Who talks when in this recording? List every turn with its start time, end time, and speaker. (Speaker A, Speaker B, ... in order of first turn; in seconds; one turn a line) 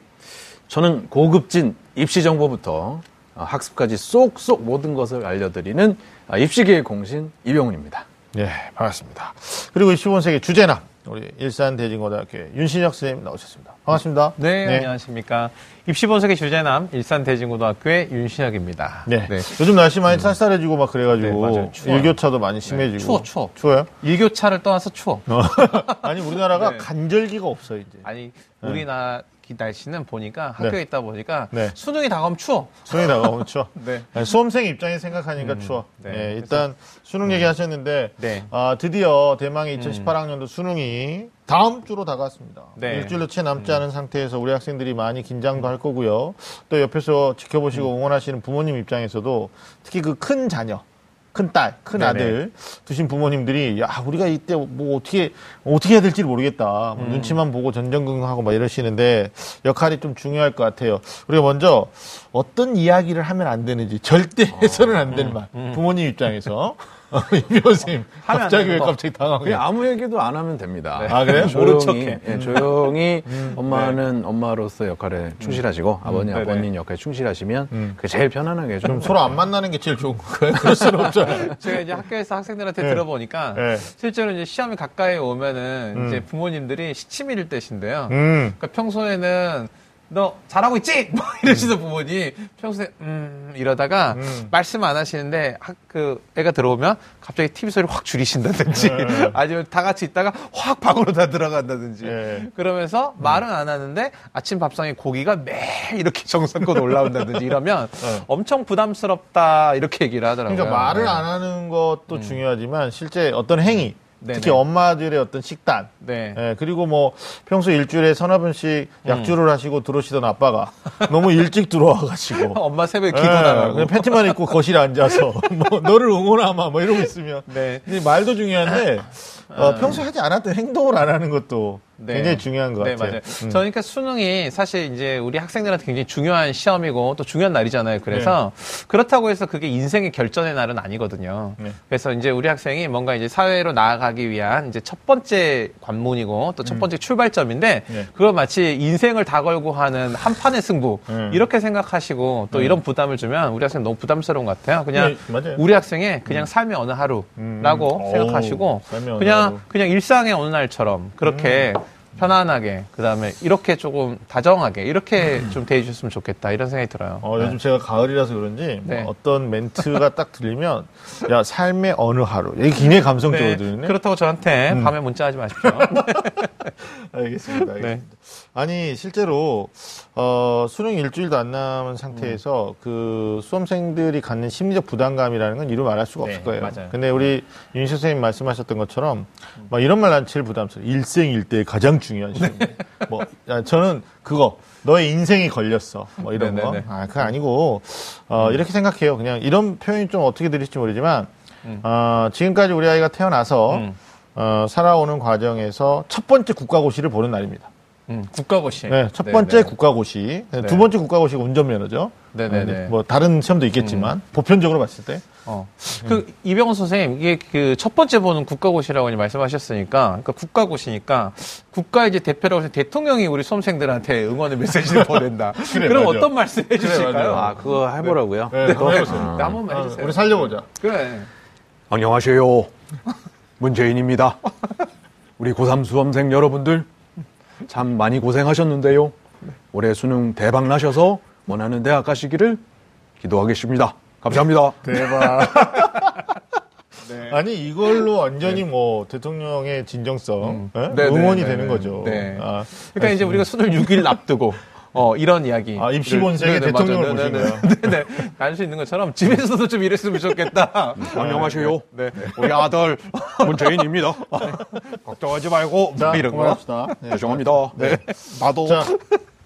Speaker A: 0.7-8.1
Speaker B: 8.3-14.9
Speaker C: 14.4-19.6
Speaker B: 19.1-23.9
Speaker C: 21.2-22.1
Speaker C: 22.7-26.9
Speaker B: 25.3-28.0
Speaker C: 28.0-34.1
Speaker B: 32.9-69.6
Speaker C: 35.4-36.6
Speaker C: 38.2-38.5
Speaker C: 39.8-40.1
Speaker C: 42.8-43.8
Speaker C: 52.0-52.4
Speaker C: 57.0-57.4
Speaker A: 64.5-65.2
Speaker C: 65.1-65.8
Speaker C: 68.1-69.0
Speaker A: 69.4-79.3
Speaker C: 71.0-72.7
Speaker B: 71.1-71.6
Speaker B: 72.3-72.6
Speaker B: 73.2-73.9
Speaker C: 76.3-76.7
Speaker B: 78.8-81.8
Speaker C: 81.1-111.2
Speaker B: 83.5-83.9
Speaker B: 85.9-86.2
Speaker B: 88.1-88.6
Speaker B: 94.1-94.5
Speaker B: 98.7-99.3
Speaker B: 102.0-102.5
Speaker B: 110.5-122.6
Speaker C: 112.1-112.4
Speaker C: 114.2-114.6
Speaker C: 116.0-116.4
Speaker C: 119.0-119.3
Speaker C: 121.0-121.3
Speaker C: 122.3-124.4
Speaker B: 123.1-133.6
Speaker C: 127.5-128.0
Speaker C: 129.5-130.0
Speaker C: 132.0-167.6
Speaker B: 138.1-138.3
Speaker B: 151.1-151.4
Speaker B: 152.5-152.8
Speaker B: 154.9-155.6
Speaker B: 157.4-159.6
Speaker B: 161.2-161.7
Speaker B: 167.2-173.9
Speaker C: 168.8-169.1
Speaker C: 173.3-176.5
Speaker B: 175.6-201.3
Speaker C: 177.5-178.0
Speaker C: 186.2-186.9
Speaker C: 192.4-193.1
Speaker C: 196.3-196.9
Speaker B: 201.8-207.7
Speaker C: 203.7-203.9
Speaker C: 208.1-209.7
Speaker B: 208.9-215.2
Speaker C: 212.3-212.9
Speaker C: 213.8-214.1
Speaker C: 215.4-227.5
Speaker B: 225.6-230.7
Speaker A: 227.2-229.6
Speaker C: 228.6-231.3
Speaker A: 231.9-232.7
Speaker A: 233.6-234.7
Speaker A: 235.4-236.9
Speaker A: 237.6-239.2
Speaker A: 239.7-242.6
Speaker A: 243.2-245.5
Speaker B: 244.8-246.3
Speaker C: 247.0-247.4
Speaker B: 247.2-253.4
Speaker C: 250.4-267.0
Speaker B: 255.8-257.9
Speaker A: 261.0-262.7
Speaker B: 261.1-261.8
Speaker A: 263.4-264.3
Speaker B: 265.9-268.9
Speaker A: 267.1-267.8
Speaker C: 267.7-269.2